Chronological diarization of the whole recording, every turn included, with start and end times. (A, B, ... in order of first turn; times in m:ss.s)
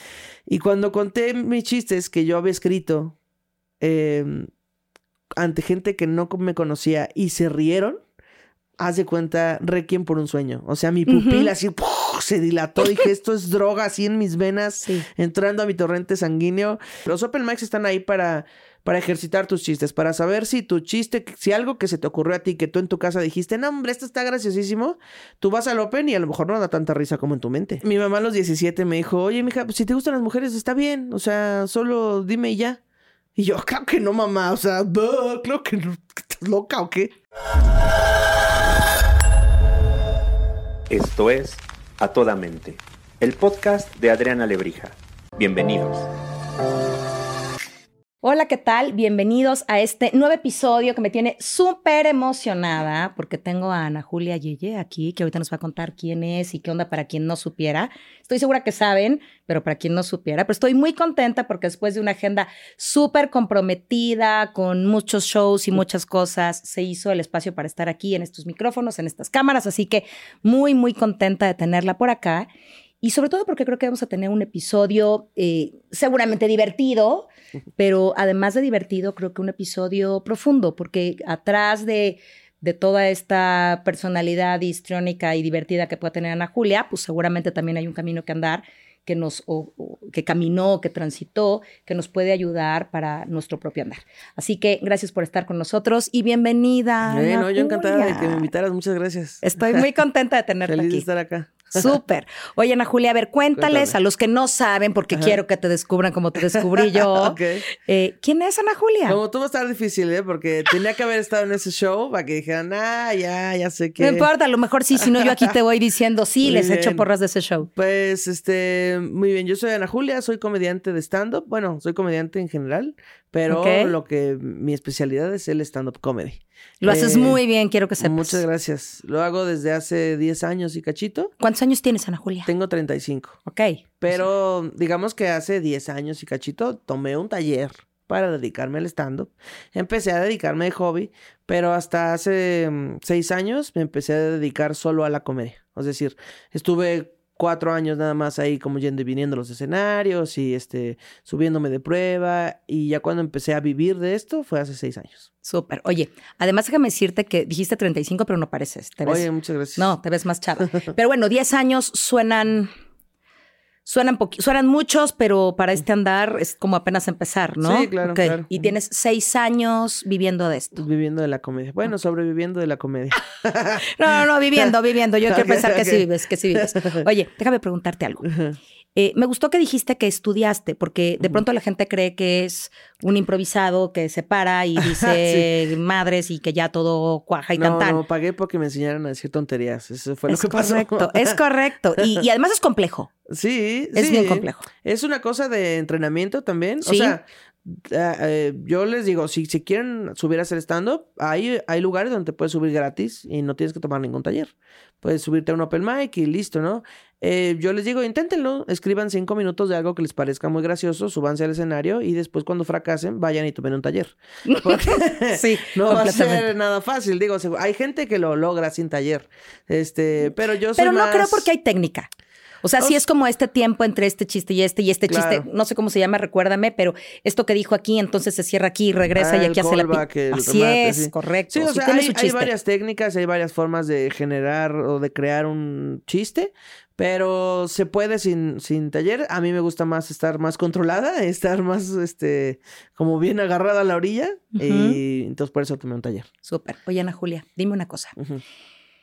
0:00.5-0:03.1 A
0:03.8-0:04.5 A
0:05.4-0:08.0 A
0:08.8-0:32.8 A
0:11.1-0:11.5 B
0:33.4-0:37.1 A
0:40.9-0:46.1 C
0:48.2-1:12.5 B
1:13.0-1:38.5 B
1:37.0-1:39.8 A
1:39.4-1:41.0 B
1:40.7-1:41.9 A
1:41.7-1:49.2 B
1:43.6-1:43.9 A
1:45.1-1:45.4 A
1:46.5-1:47.6 A
1:49.0-1:54.3 A
1:54.0-1:57.7 B
1:55.0-1:55.5 A
1:56.4-1:57.1 A
1:57.7-2:07.4 A
2:03.5-2:03.9 B
2:06.8-2:08.4 B
2:08.0-2:11.3 A
2:11.4-2:12.5 B
2:12.4-2:13.4 A
2:13.4-2:13.8 B
2:14.0-2:35.3 A
2:35.4-2:42.7 B
2:39.0-2:39.9 A
2:43.8-2:50.8 B
2:47.6-2:48.7 A
2:50.7-2:53.8 A
2:53.8-2:58.3 B
2:55.3-2:57.0 A
2:58.2-2:58.6 A
2:58.9-3:08.0 B
3:04.8-3:05.5 A
3:07.6-3:11.4 A
3:10.3-3:13.1 B
3:12.0-3:12.2 A
3:13.3-3:41.4 A
3:13.9-3:14.7 B
3:16.8-3:17.2 B
3:34.4-3:36.5 B
3:40.8-3:42.1 B
3:42.6-3:52.5 B
3:45.1-3:45.5 A
3:49.1-4:06.3 A
4:04.5-4:05.0 B
4:06.4-4:08.2 B